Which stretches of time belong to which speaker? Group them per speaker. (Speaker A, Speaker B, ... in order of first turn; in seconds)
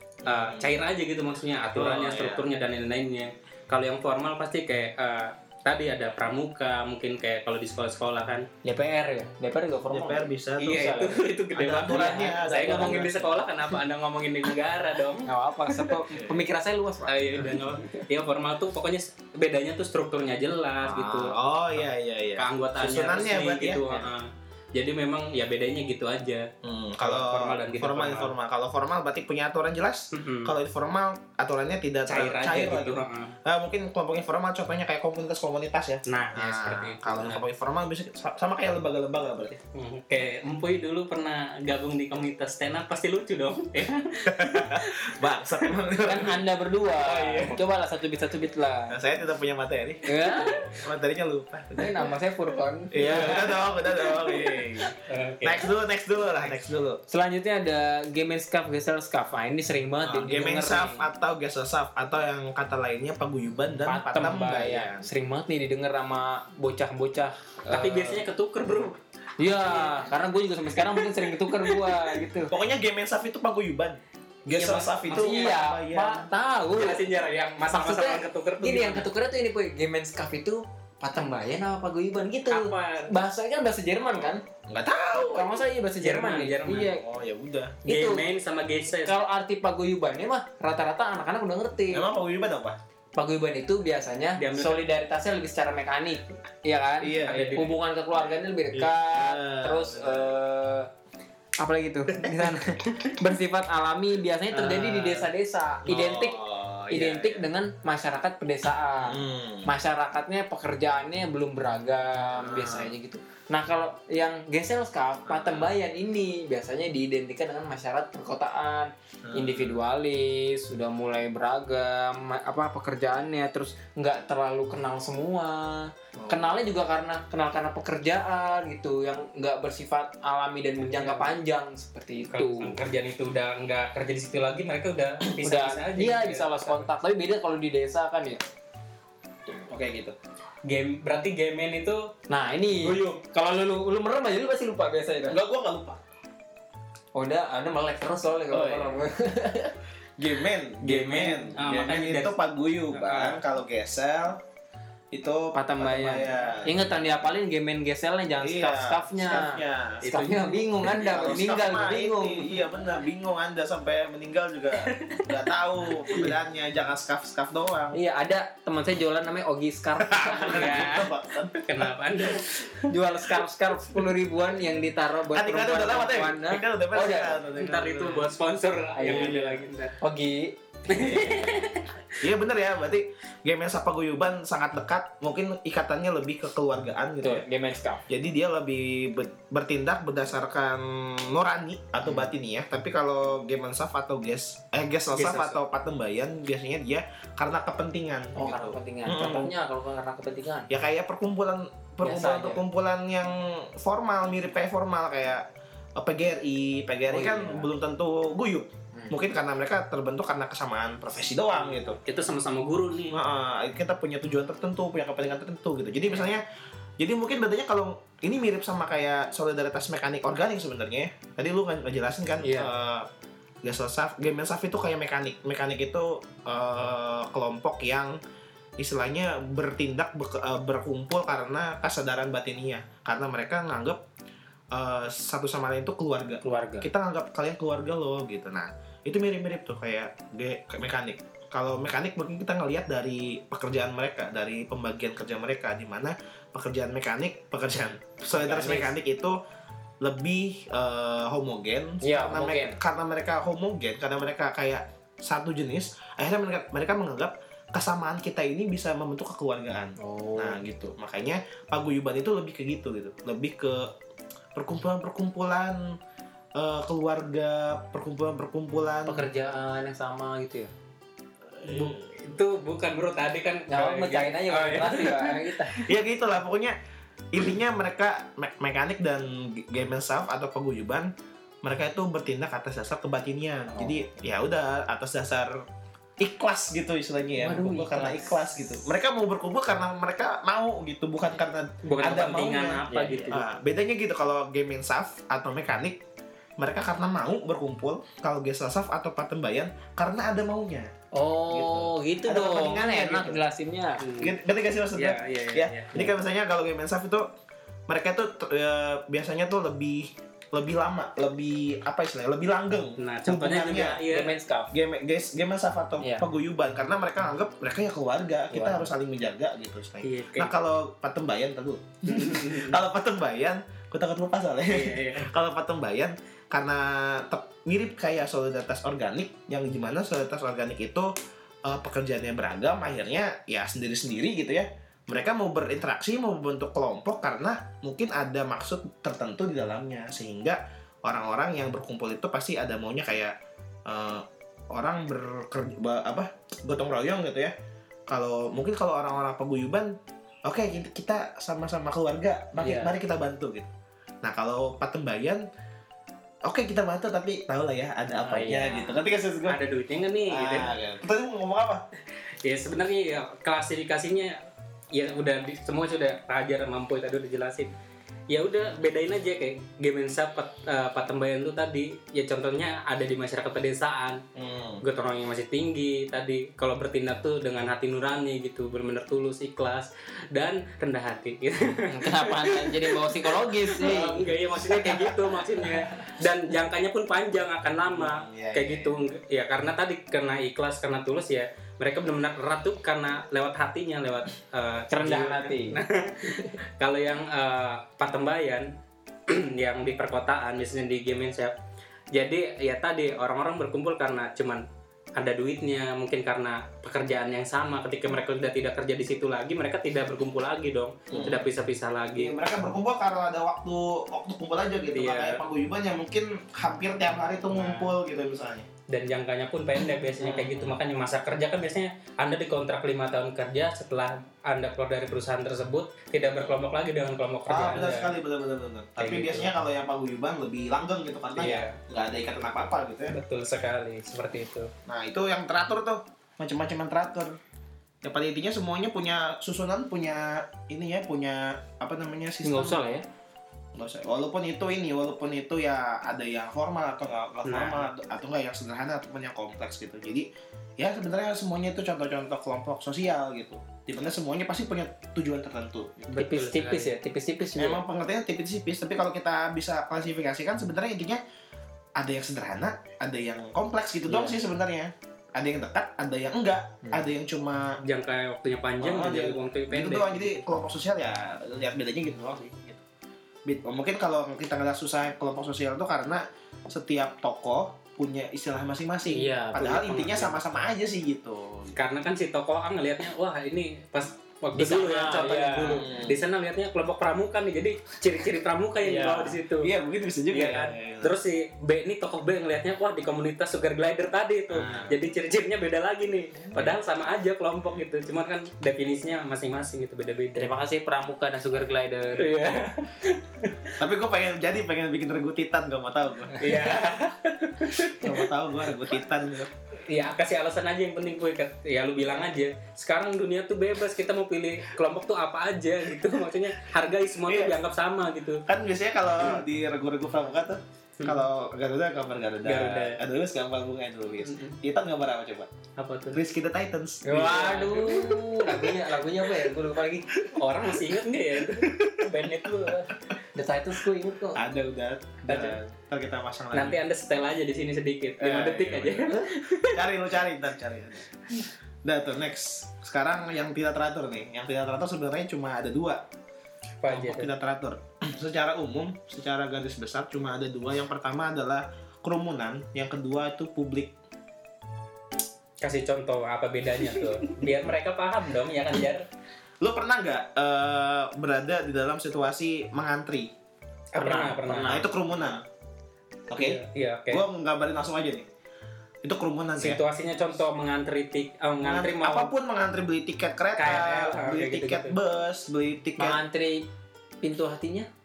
Speaker A: 0.2-0.8, 1.7-2.5, 9.9-11.0, 11.5-13.3, 20.8-23.9, 26.6-39.5, 44.3-46.4, 48.9-50.1, 50.7-52.1, 52.9-57.0, 60.0-65.1, 72.5-76.3, 84.7-85.7, 86.9-87.8, 91.9-92.8, 97.0-97.7, 98.7-100.4, 102.2-102.5, 104.5-105.3, 105.9-107.5, 109.0-109.7, 112.4-112.9, 115.2-115.8, 119.2-119.8, 126.2-126.5, 139.5-140.2, 145.3-146.0, 148.5-149.0, 150.2-154.4, 155.1-156.9, 158.4-160.1, 161.0-168.0, 170.1-171.9, 175.3-178.3, 182.2-187.5, 188.1-199.5, 200.7-212.0, 213.1-216.4, 217.0-223.1, 223.6-228.2, 228.8-234.0, 234.7-249.4, 250.0-263.9, 264.6-266.0, 266.6-269.3, 271.6-272.0, 275.9-276.8, 277.3-281.1, 281.6-285.6, 286.2-296.0, 296.6-300.9, 301.5-303.4, 304.2-307.3, 307.9-314.0, 314.7-331.1, 331.6-343.4, 343.9-347.6, 348.1-353.7, 354.2-355.5, 356.4-359.6, 360.3-361.9, 374.4-374.9, 383.8-385.3, 387.9-389.1, 411.1-411.5, 412.2-418.7, 420.2-420.8, 426.2-426.6, 427.5-433.2, 434.9-437.4, 438.0-442.8, 443.8-456.2, 457.6-461.2, 462.0-467.8, 468.8-472.8, 473.4-481.8, 485.7-486.2, 489.6-491.1, 494.5-495.0, 503.8-506.5, 507.8-509.5, 517.2-517.6, 518.5-525.5, 526.1-527.6, 531.5-532.0, 534.4-536.8, 538.2-546.0, 546.9-554.0, 557.0-557.5, 559.6-563.3, 564.0-565.4, 566.3-568.3, 569.0-569.8, 571.6-576.2
Speaker B: 0.3-8.5, 10.6-16.0, 17.1-21.4, 22.4-26.5, 27.0-28.3, 30.1-30.5, 32.1-33.4, 36.1-37.4, 39.7-45.1, 47.0-47.6, 54.9-55.7, 67.7-70.1, 71.6-72.2, 75.0-75.6, 76.7-79.1, 82.5-83.1, 86.0-86.9, 87.8-89.2, 94.4-94.9, 97.3-97.7, 130.8-131.4, 132.3-136.9, 140.7-142.1, 142.8-143.1, 150.8-152.4, 152.9-153.4, 160.0-160.6, 164.8-165.3, 170.4-172.9, 177.5-180.0, 180.9-181.9, 195.1-195.6, 212.1-213.2, 271.6-275.9, 291.9-293.4, 304.0-304.3, 305.0-305.9, 313.0-314.3, 320.0-320.5, 322.1-322.8, 324.7-325.3, 359.5-360.7, 362.4-364.4, 364.9-367.7, 368.3-374.2, 374.8-398.7, 399.3-401.6, 402.1-404.6, 405.2-412.3, 414.9-415.4, 417.5-417.9, 418.9-428.1, 429.0-429.5, 431.4-431.8, 433.1-434.7, 447.4-447.9, 456.1-456.9, 467.8-470.3, 481.8-489.7, 490.3-500.5, 502.1-503.7, 506.4-508.2, 509.9-518.4, 522.5-523.0, 524.3-524.5, 525.8-526.2, 527.1-528.8, 530.4-533.0, 535.3-535.6, 536.5-539.8, 546.8-547.3, 555.6-559.1, 564.0-564.8, 566.3-567.2, 569.6-572.3, 573.6-575.0
Speaker C: 8.6-11.2, 11.9-13.2, 15.3-17.8, 46.0-49.0, 50.0-50.7, 51.8-53.5, 57.1-61.1, 63.9-68.2, 69.4-72.5, 74.5-77.1, 77.7-84.4, 85.3-87.0, 87.9-88.3, 89.0-92.1, 93.2-100.9, 101.6-132.8, 135.3-138.4, 142.3-145.4, 147.2-149.7, 155.5-162.6, 167.9-170.9, 172.9-177.4, 179.0-181.5, 187.2-188.0, 198.4-200.7, 202.0-202.6, 207.1-207.7, 222.4-222.7, 236.4-236.9, 248.3-248.9, 252.0-252.8, 260.0-260.6, 269.1-270.7, 273.7-275.8, 287.4-288.4, 292.9-293.3, 301.1-304.0, 314.1-314.7, 316.0-316.3, 318.5-318.9, 352.6-352.9, 358.2-358.9, 381.9-384.3, 394.9-395.8, 442.4-443.1, 456.1-457.8, 464.1-464.4, 466.8-467.1, 479.1-480.4, 484.6-485.9, 488.8-489.4, 500.4-502.4, 527.0-530.1, 533.4-534.4, 564.0-564.9, 576.0-576.7, 577.2-577.9